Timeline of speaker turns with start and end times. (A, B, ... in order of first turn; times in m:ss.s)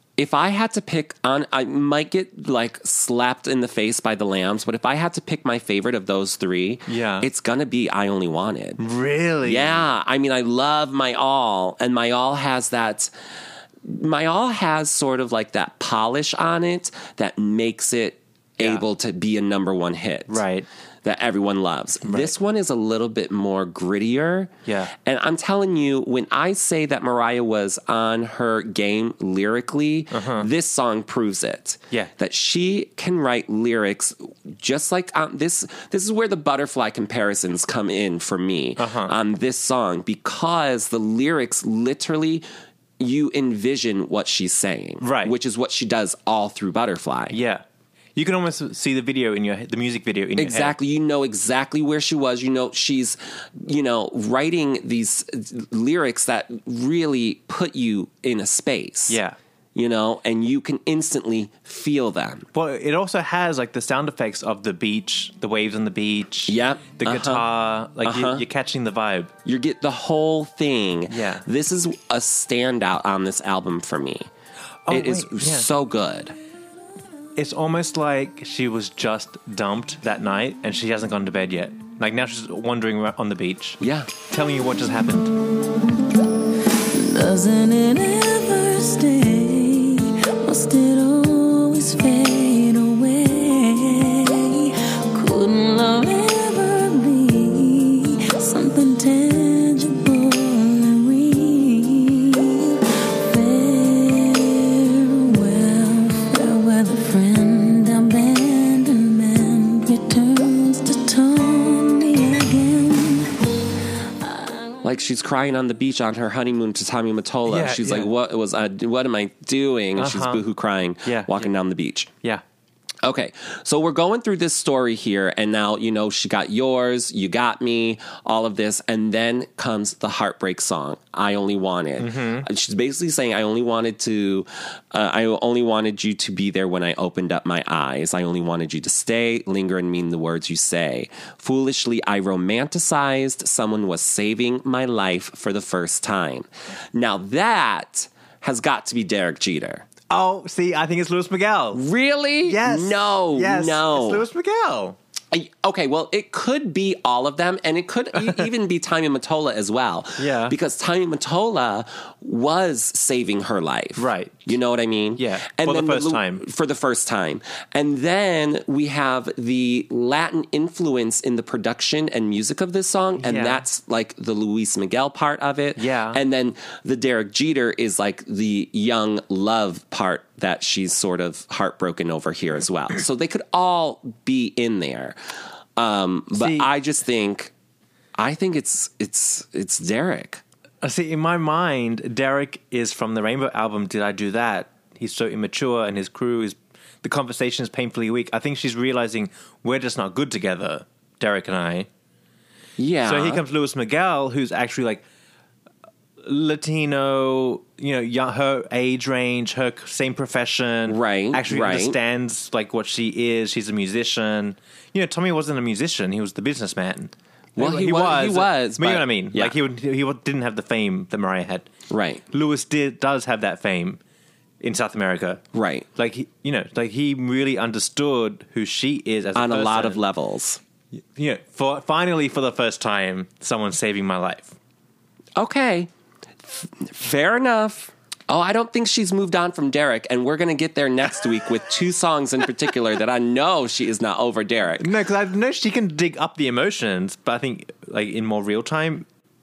0:00.2-0:08.8 A
0:06.9-0:07.3 B
0:08.8-0:09.9 B
0:09.4-0:13.1 A
0:13.8-0:20.4 A
0:20.3-0:20.7 B
0:21.0-0:42.4 A
0:22.1-0:22.3 B
0:24.7-0:24.9 B
0:30.1-0:30.5 B
0:38.8-0:39.1 B
0:43.0-0:47.4 A
0:45.0-0:45.4 B
0:47.3-0:47.6 B
0:48.2-0:50.8 B
0:50.4-0:59.2 A
0:59.1-0:59.4 B
0:59.8-1:02.5 A
1:02.5-1:09.3 B
1:06.5-1:07.4 A
1:08.0-1:08.4 A
1:09.4-1:14.3 A
1:11.1-1:11.5 B
1:14.9-1:15.7 B
1:14.9-1:16.4 A
1:17.4-1:25.3 B
1:23.8-1:24.1 A
1:26.9-1:53.3 C
1:54.2-1:54.7 C
1:54.8-2:02.1 A
1:57.5-1:58.1 B
2:00.0-2:00.4 B
2:01.0-2:01.5 B
2:03.0-2:29.9 A
2:12.0-2:12.5 B
2:30.1-2:31.8 B
2:31.7-2:34.2 A
2:32.4-2:35.0 B
2:35.3-3:05.2 A
2:38.2-2:38.5 B
2:40.2-2:40.6 B
2:44.0-2:44.5 B
2:45.2-2:46.4 B
2:53.2-2:53.6 B
2:55.8-2:56.2 B
3:05.8-3:07.5 A
3:06.3-3:06.7 B
3:08.2-3:10.4 A
3:10.8-3:21.9 B
3:22.8-3:23.4 A
3:23.1-3:25.0 B
3:26.2-3:41.7 B
3:30.9-3:32.0 A
3:37.6-3:39.6 A
3:41.9-3:42.2 A
3:42.3-3:44.0 B
3:44.6-3:45.4 B
3:45.5-3:45.9 A
3:46.0-3:50.0 B
3:49.4-3:50.6 A
3:51.2-3:54.6 B
3:55.4-3:55.9 A
3:56.4-4:04.9 A
4:04.8-4:09.0 B